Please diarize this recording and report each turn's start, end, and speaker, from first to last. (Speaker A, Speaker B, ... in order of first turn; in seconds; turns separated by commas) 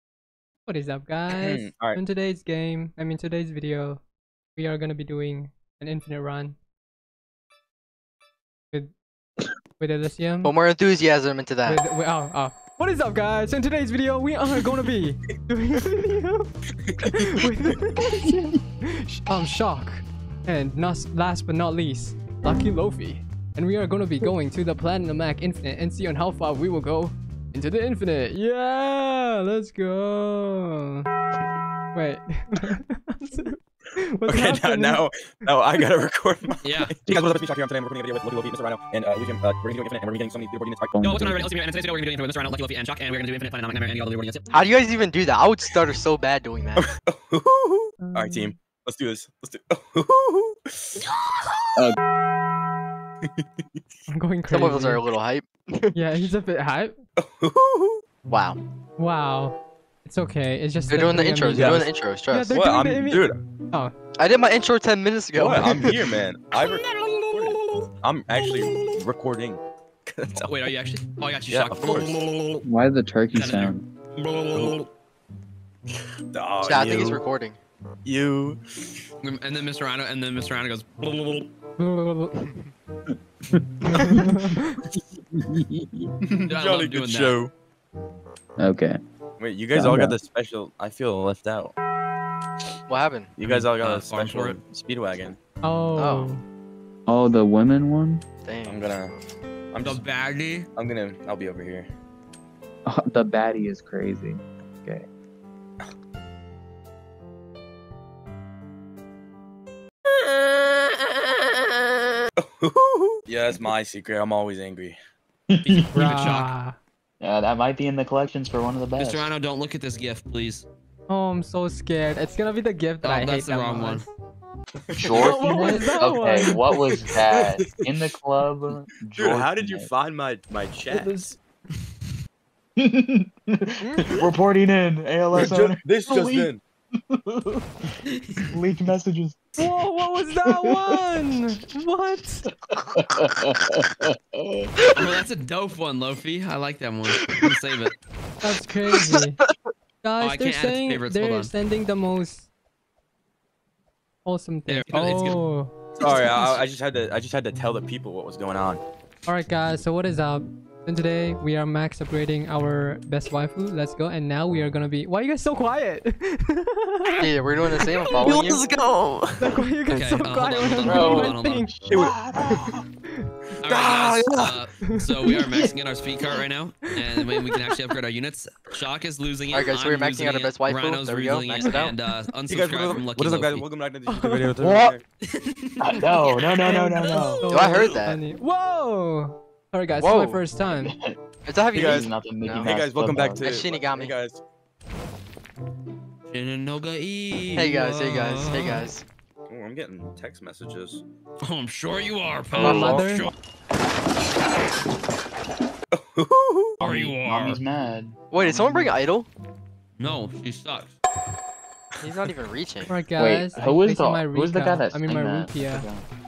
Speaker A: 0.7-4.0, Speaker B: 1.3-2.0, Speaker A: 4.5-6.5, Speaker A: 9.8-10.5, Speaker C: 10.4-11.8, Speaker A: 11.7-16.5, Speaker B: 16.8-17.5, Speaker A: 17.0-31.1, Speaker A: 31.9-33.6, Speaker A: 34.2-35.0, Speaker B: 34.2-41.0, Speaker D: 36.6-37.0, Speaker E: 40.9-41.5, Speaker D: 41.0-44.5, Speaker C: 44.5-46.9, Speaker B: 46.8-51.0, Speaker A: 48.0-48.5, Speaker A: 54.1-55.0, Speaker C: 54.5-55.9, Speaker A: 55.9-57.0, Speaker B: 57.2-58.0, Speaker C: 58.2-58.6, Speaker A: 59.0-63.9, Speaker C: 60.9-62.5, Speaker B: 61.5-61.9, Speaker B: 62.5-63.4, Speaker C: 64.2-66.1, Speaker B: 65.3-70.5, Speaker D: 66.6-67.9, Speaker D: 70.4-72.6, Speaker B: 71.5-72.2, Speaker E: 72.6-73.8, Speaker D: 73.3-74.9, Speaker B: 76.3-77.2, Speaker C: 76.6-77.6, Speaker B: 78.0-78.6, Speaker D: 79.2-81.5, Speaker A: 81.8-82.4, Speaker C: 82.4-82.7, Speaker E: 83.5-84.4, Speaker A: 83.9-84.8, Speaker E: 85.5-86.3, Speaker B: 86.5-87.5, Speaker D: 86.5-87.4, Speaker E: 88.6-89.0, Speaker B: 89.4-91.7, Speaker E: 89.7-90.2, Speaker C: 92.9-93.3, Speaker B: 93.3-95.4, Speaker D: 93.4-94.6, Speaker A: 95.6-96.4, Speaker C: 96.0-96.3, Speaker E: 97.1-98.2, Speaker C: 98.4-99.2, Speaker B: 98.6-99.1, Speaker B: 99.7-100.0, Speaker D: 99.8-100.7, Speaker B: 100.8-101.9, Speaker E: 102.8-105.1, Speaker B: 112.4-115.0, Speaker E: 115.5-116.0, Speaker D: 115.6-116.5, Speaker A: 115.9-116.8, Speaker E: 117.2-119.3, Speaker D: 119.0-120.7, Speaker A: 121.1-124.0, Speaker D: 123.0-124.0, Speaker B: 124.9-127.9, Speaker E: 125.0-129.9, Speaker A: 125.2-126.5, Speaker B: 129.1-131.3, Speaker A: 130.9-131.3, Speaker E: 132.8-136.5, Speaker C: 133.8-134.2, Speaker B: 135.3-136.6, Speaker E: 137.1-137.9, Speaker D: 138.1-138.5, Speaker E: 138.5-139.6, Speaker A: 139.6-142.4, Speaker E: 140.3-141.0, Speaker E: 142.9-144.7, Speaker D: 144.9-147.9, Speaker A: 148.4-149.4, Speaker C: 149.0-149.5, Speaker A: 150.0-152.5, Speaker D: 150.2-151.5, Speaker A: 154.2-155.8, Speaker D: 154.7-155.4, Speaker D: 156.0-156.6, Speaker B: 156.0-158.8, Speaker A: 159.2-167.3, Speaker C: 167.2-168.6, Speaker D: 168.1-171.7, Speaker A: 169.4-171.8, Speaker E: 170.8-172.8, Speaker D: 173.6-183.7, Speaker B: 173.7-174.5, Speaker A: 174.8-175.3, Speaker C: 179.5-181.9, Speaker B: 182.5-185.0, Speaker A: 184.1-184.6, Speaker C: 184.6-184.9, Speaker D: 185.3-187.9, Speaker E: 185.8-187.4, Speaker A: 186.6-190.9, Speaker C: 187.5-188.2, Speaker C: 190.0-190.4, Speaker E: 190.6-191.2, Speaker C: 191.4-192.7, Speaker B: 191.7-194.4, Speaker E: 191.7-193.4, Speaker C: 193.4-194.1, Speaker D: 196.3-198.9, Speaker C: 197.5-199.0, Speaker B: 199.5-201.0, Speaker D: 201.4-203.3, Speaker B: 202.5-203.2, Speaker A: 202.6-203.3, Speaker E: 202.6-203.1, Speaker B: 205.9-206.8, Speaker E: 206.8-208.9, Speaker D: 206.8-207.6, Speaker C: 208.3-209.3, Speaker D: 210.0-210.9, Speaker C: 212.0-212.9, Speaker A: 212.8-215.9, Speaker E: 213.2-216.0